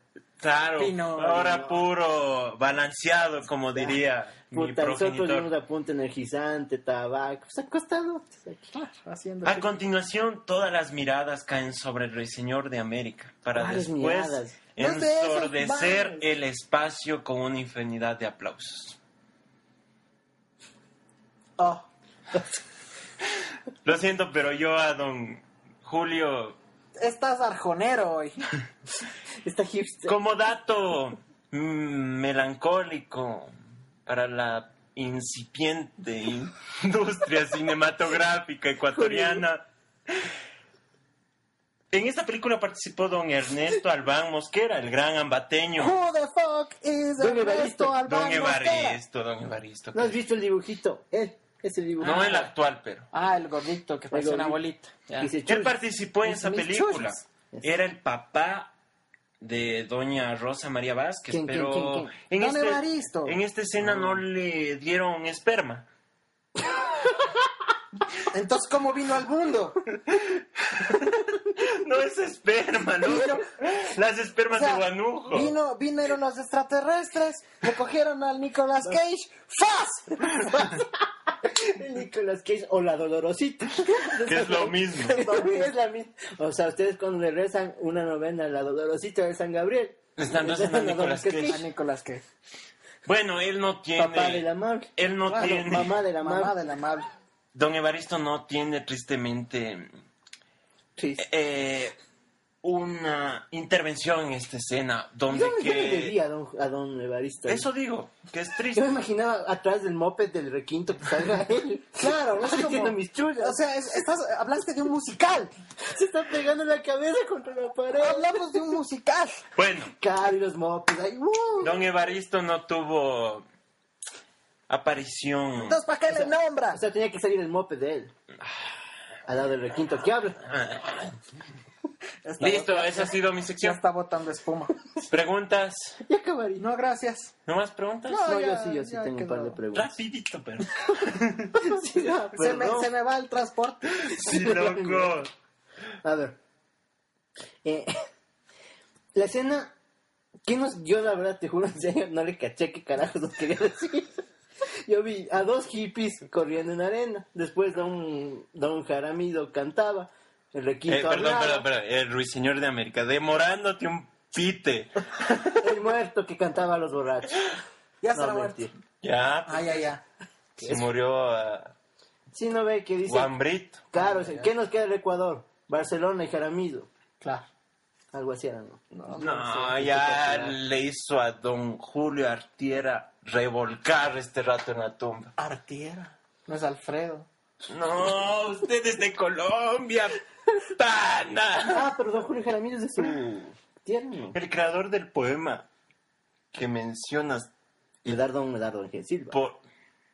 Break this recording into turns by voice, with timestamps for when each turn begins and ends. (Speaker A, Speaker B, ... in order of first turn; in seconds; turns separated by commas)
Speaker A: 0.4-5.5, Speaker B: 0.8-1.8, Speaker C: 4.5-8.7, Speaker B: 8.7-9.6, Speaker A: 9.4-19.0, Speaker C: 13.5-14.6, Speaker B: 14.8-16.3, Speaker B: 21.6-21.8, Speaker A: 23.8-26.6, Speaker B: 27.0-28.4, Speaker C: 29.4-30.1, Speaker A: 30.1-33.5, Speaker A: 34.0-40.3, Speaker C: 38.9-39.4, Speaker A: 41.9-45.9, Speaker B: 45.8-49.0, Speaker C: 47.2-48.0, Speaker A: 48.0-50.2, Speaker C: 49.9-52.5, Speaker A: 52.0-53.1, Speaker B: 52.1-52.4, Speaker B: 53.1-55.6, Speaker C: 54.1-54.6, Speaker C: 55.2-55.7, Speaker A: 55.4-58.7, Speaker B: 56.2-57.2, Speaker A: 59.4-65.9, Speaker C: 61.3-62.1, Speaker B: 62.4-63.4, Speaker C: 63.8-64.2, Speaker B: 68.3-69.8, Speaker A: 69.9-75.5, Speaker B: 73.0-73.5, Speaker B: 74.5-80.8, Speaker C: 80.4-91.6, Speaker A: 84.2-85.2, Speaker B: 85.1-85.7, Speaker A: 90.2-91.6, Speaker B: 91.5-92.2, Speaker A: 93.0-96.0, Speaker C: 93.9-96.5, Speaker B: 95.3-97.1, Speaker A: 97.5-99.9, Speaker C: 101.0-101.2, Speaker A: 101.2-102.0, Speaker A: 102.6-106.1, Speaker C: 105.3-107.7, Speaker A: 107.5-108.8, Speaker C: 108.7-113.6, Speaker B: 111.9-115.5, Speaker C: 115.8-118.7, Speaker B: 117.9-119.4, Speaker A: 119.5-119.9, Speaker C: 120.0-121.8, Speaker A: 121.6-123.4, Speaker A: 124.7-125.8, Speaker B: 125.6-126.8, Speaker C: 126.1-128.1, Speaker C: 129.2-130.4, Speaker A: 130.4-131.2, Speaker B: 132.2-134.7, Speaker A: 132.4-133.8, Speaker A: 135.1-136.0, Speaker C: 136.0-136.7, Speaker B: 136.6-137.3, Speaker A: 137.4-138.2, Speaker B: 138.1-139.6, Speaker C: 138.2-139.9, Speaker A: 139.7-141.6, Speaker C: 141.5-142.9, Speaker B: 142.3-143.9, Speaker A: 143.9-145.3, Speaker C: 144.2-145.2, Speaker C: 146.0-146.4, Speaker C: 147.6-148.0, Speaker C: 149.1-149.7, Speaker C: 150.4-161.7, Speaker A: 160.9-165.7, Speaker C: 165.6-167.5, Speaker B: 168.0-168.6, Speaker C: 168.1-168.7, Speaker A: 169.0-169.8, Speaker B: 169.4-170.0, Speaker A: 170.6-171.7, Speaker C: 170.6-170.8, Speaker C: 172.3-173.3, Speaker A: 173.1-174.3, Speaker C: 173.9-176.9, Speaker B: 177.2-177.5, Speaker C: 178.1-180.6, Speaker B: 178.9-179.7, Speaker A: 179.2-185.3, Speaker B: 185.4-187.3, Speaker A: 187.7-191.8, Speaker C: 191.7-194.4, Speaker A: 194.3-195.7, Speaker A: 196.5-197.5, Speaker C: 198.0-199.3, Speaker A: 199.3-199.6